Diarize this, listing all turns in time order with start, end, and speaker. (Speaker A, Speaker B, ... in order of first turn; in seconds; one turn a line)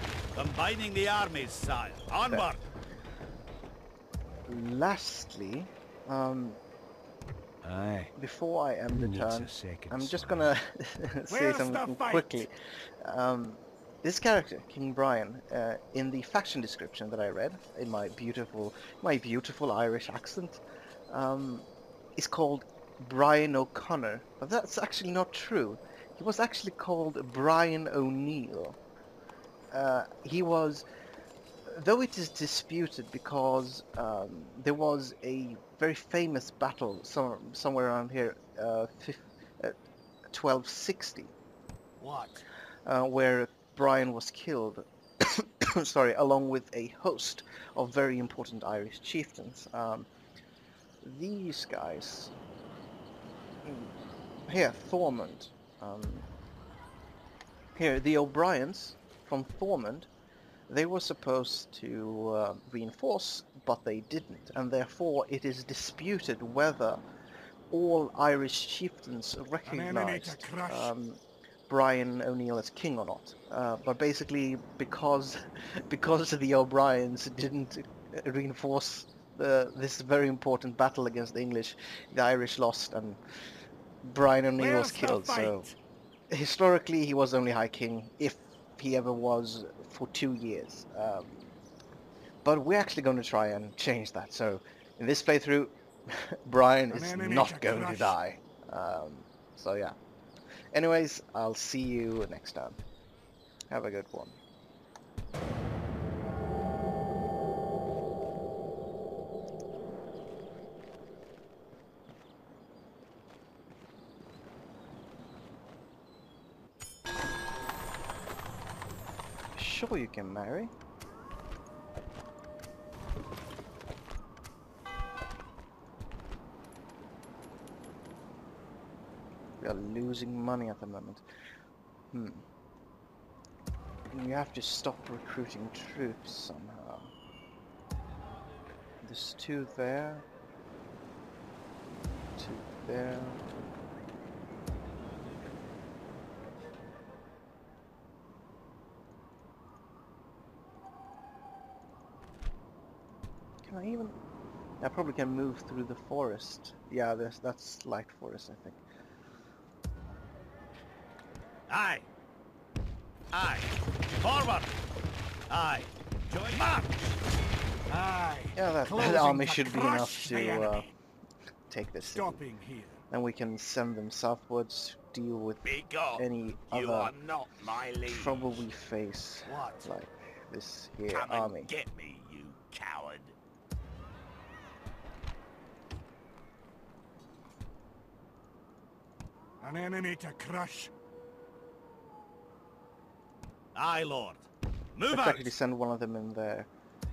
Speaker A: 0.3-2.6
Speaker B: 4.5-6.6
Speaker C: 7.6-8.1
Speaker B: 8.2-20.6
Speaker C: 8.9-10.5
Speaker D: 11.3-12.4
Speaker B: 21.1-28.8
Speaker B: 29.7-30.8
Speaker B: 31.7-39.7
Speaker B: 40.3-41.3
Speaker A: 42.0-42.4
Speaker B: 42.8-50.1
Speaker B: 51.0-52.3
Speaker B: 53.6-53.9
Speaker B: 54.5-56.3
Speaker B: 57.7-60.1
Speaker B: 60.7-67.0
Speaker B: 67.7-83.2
Speaker D: 69.7-70.9
Speaker B: 84.0-85.7
Speaker D: 84.6-85.7
Speaker B: 86.3-91.5
Speaker B: 92.4-99.9
Speaker D: 96.9-98.2
Speaker B: 100.7-102.8
Speaker B: 103.7-104.4
Speaker B: 119.5-120.7
Speaker B: 129.6-131.2
Speaker B: 132.1-132.4
Speaker B: 134.1-137.1
Speaker B: 139.0-140.2
Speaker B: 142.4-143.4
Speaker B: 153.6-154.1
Speaker B: 154.8-158.8
Speaker A: 161.7-162.1
Speaker A: 163.3-164.8
Speaker A: 165.5-167.2
Speaker D: 167.9-170.9
Speaker B: 168.5-170.9
Speaker B: 171.7-172.4
Speaker D: 172.0-173.0
Speaker B: 173.1-177.1
Speaker A: 175.6-178.6
Speaker B: 178.1-181.7
Speaker D: 179.4-179.9
Speaker A: 181.1-183.3
Speaker D: 189.6-190.9
Speaker A: 193.7-195.5
Speaker B: 195.1-196.7